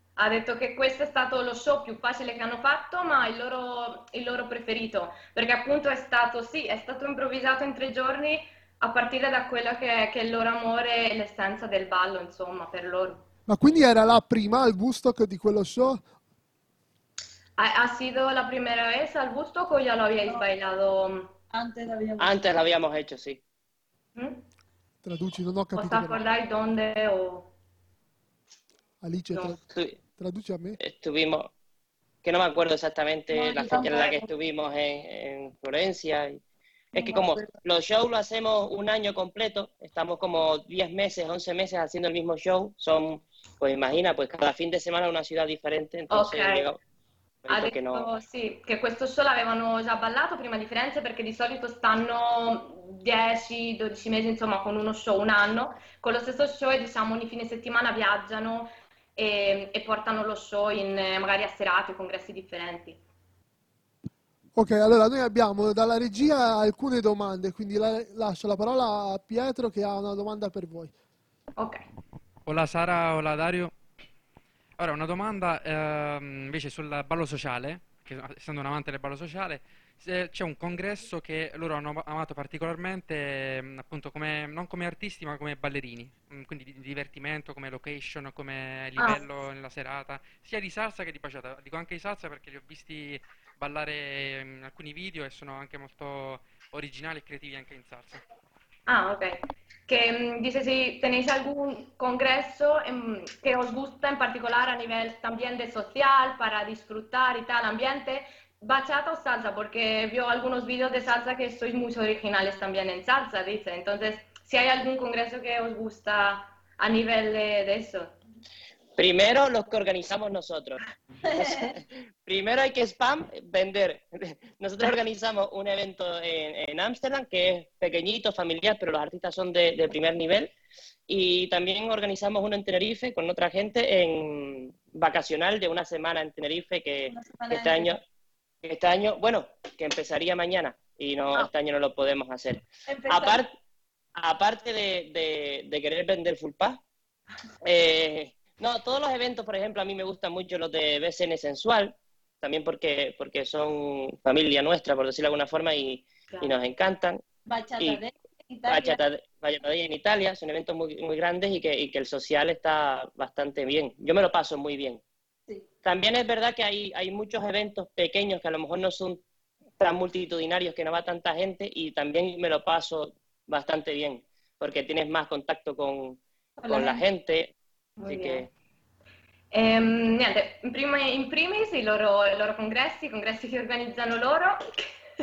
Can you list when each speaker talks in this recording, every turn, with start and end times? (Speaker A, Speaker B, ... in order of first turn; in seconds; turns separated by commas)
Speaker A: 0.2-13.2, Speaker B: 13.5-16.0, Speaker A: 17.6-21.3, Speaker C: 21.5-22.5, Speaker D: 22.2-23.4, Speaker A: 24.1-24.4, Speaker B: 25.0-26.2, Speaker A: 25.8-27.5, Speaker B: 29.0-29.6, Speaker B: 30.2-30.8, Speaker D: 30.8-31.5, Speaker D: 32.2-36.4, Speaker C: 33.3-34.3, Speaker A: 33.7-34.1, Speaker D: 36.9-46.8, Speaker C: 37.0-37.5, Speaker A: 46.1-46.7, Speaker D: 47.4-48.1, Speaker A: 47.5-63.0, Speaker B: 64.5-70.9, Speaker A: 71.6-71.8, Speaker E: 72.5-73.7, Speaker E: 74.8-98.2, Speaker A: 98.9-118.2, Speaker D: 119.0-120.8, Speaker C: 121.3-121.8, Speaker D: 121.4-130.5, Speaker D: 131.1-138.0, Speaker C: 137.1-138.0, Speaker D: 138.6-143.5, Speaker C: 142.9-143.4, Speaker D: 144.2-146.8, Speaker D: 147.6-157.2, Speaker C: 157.5-159.0, Speaker D: 158.7-165.0, Speaker D: 165.8-169.2, Speaker D: 169.8-177.6, Speaker C: 176.6-177.0, Speaker A: 178.0-178.5, Speaker D: 178.1-178.5, Speaker A: 179.5-184.9